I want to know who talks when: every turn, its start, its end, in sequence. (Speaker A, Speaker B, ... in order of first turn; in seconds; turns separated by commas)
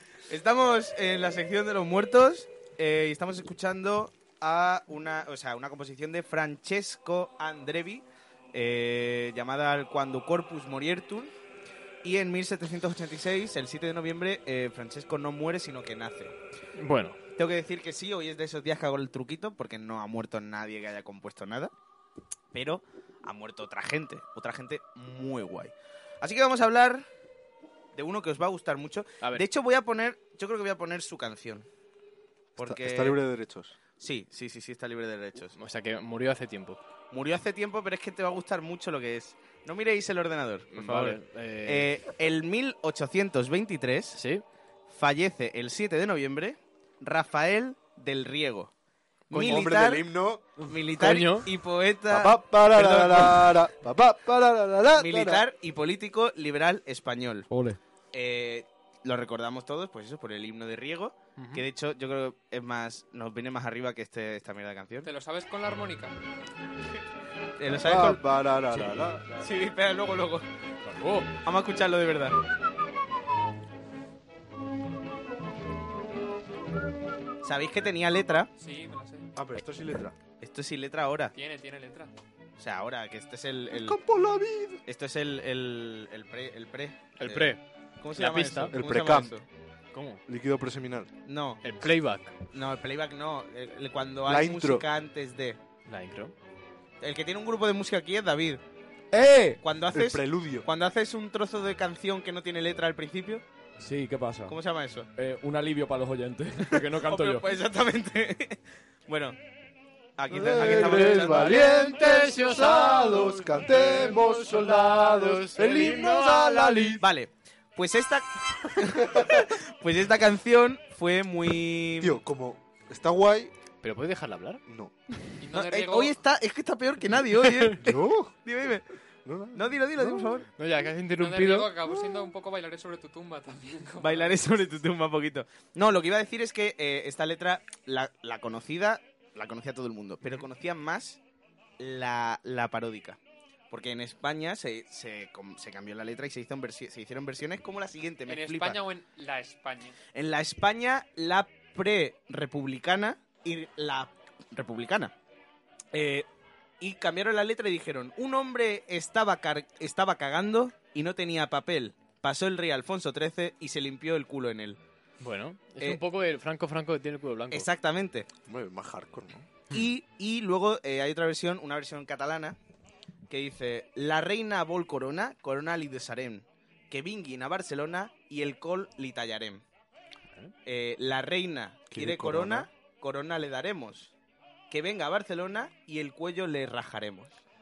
Speaker A: 0.3-11.3, Speaker A: 12.0-16.4, Speaker B: 16.8-17.2, Speaker A: 17.4-21.7, Speaker A: 22.5-27.1, Speaker A: 27.9-31.7, Speaker A: 32.6-33.2, Speaker C: 32.6-33.8, Speaker A: 34.0-35.5, Speaker B: 35.5-36.8, Speaker A: 37.1-44.2, Speaker B: 40.7-41.9, Speaker B: 44.2-44.4, Speaker A: 44.9-48.7, Speaker A: 49.3-50.1, Speaker C: 49.3-50.5, Speaker A: 50.6-53.5, Speaker B: 51.0-51.5, Speaker C: 52.1-55.5, Speaker A: 55.0-57.5, Speaker D: 57.5-57.8, Speaker A: 58.1-65.1, Speaker B: 61.4-61.6, Speaker E: 65.0-66.2, Speaker A: 67.6-68.2, Speaker C: 67.8-69.3, Speaker A: 69.3-70.5, Speaker B: 70.9-71.3, Speaker A: 71.4-72.4, Speaker A: 77.4-78.5, Speaker E: 78.6-79.3, Speaker C: 79.4-80.2, Speaker A: 80.4-81.3, Speaker E: 81.3-82.1, Speaker A: 82.6-84.0, Speaker C: 83.8-84.8, Speaker A: 84.9-89.4, Speaker B: 87.2-88.8, Speaker C: 88.7-89.3, Speaker B: 89.9-90.2, Speaker C: 90.3-91.1, Speaker A: 91.3-91.6, Speaker B: 91.6-92.4, Speaker A: 92.5-95.6, Speaker C: 94.2-94.9, Speaker B: 95.9-96.3, Speaker A: 97.0-98.6, Speaker D: 99.1-99.6, Speaker A: 99.6-103.4, Speaker C: 99.9-100.7, Speaker D: 103.8-104.6, Speaker A: 104.5-105.1, Speaker D: 105.2-107.5, Speaker A: 106.7-109.4, Speaker A: 110.2-111.5, Speaker C: 110.3-117.0, Speaker B: 110.6-117.0, Speaker A: 117.0-122.2, Speaker C: 119.0-119.4, Speaker C: 122.0-123.5, Speaker B: 123.8-124.6, Speaker C: 124.7-124.9, Speaker E: 125.4-126.2, Speaker A: 125.5-127.9, Speaker C: 127.8-128.3, Speaker A: 128.4-128.8, Speaker C: 129.2-130.4, Speaker A: 129.5-130.5, Speaker B: 130.5-131.7, Speaker E: 131.2-134.4, Speaker A: 134.0-141.2, Speaker A: 141.8-143.2, Speaker A: 143.7-148.8, Speaker E: 148.3-150.0, Speaker A: 150.1-155.1, Speaker A: 155.9-156.3, Speaker A: 156.8-164.8, Speaker B: 165.2-167.7, Speaker A: 167.5-168.3, Speaker C: 168.4-169.5, Speaker A: 169.7-172.6, Speaker A: 173.3-179.6, Speaker A: 180.7-184.1, Speaker C: 181.9-182.7, Speaker A: 184.7-187.4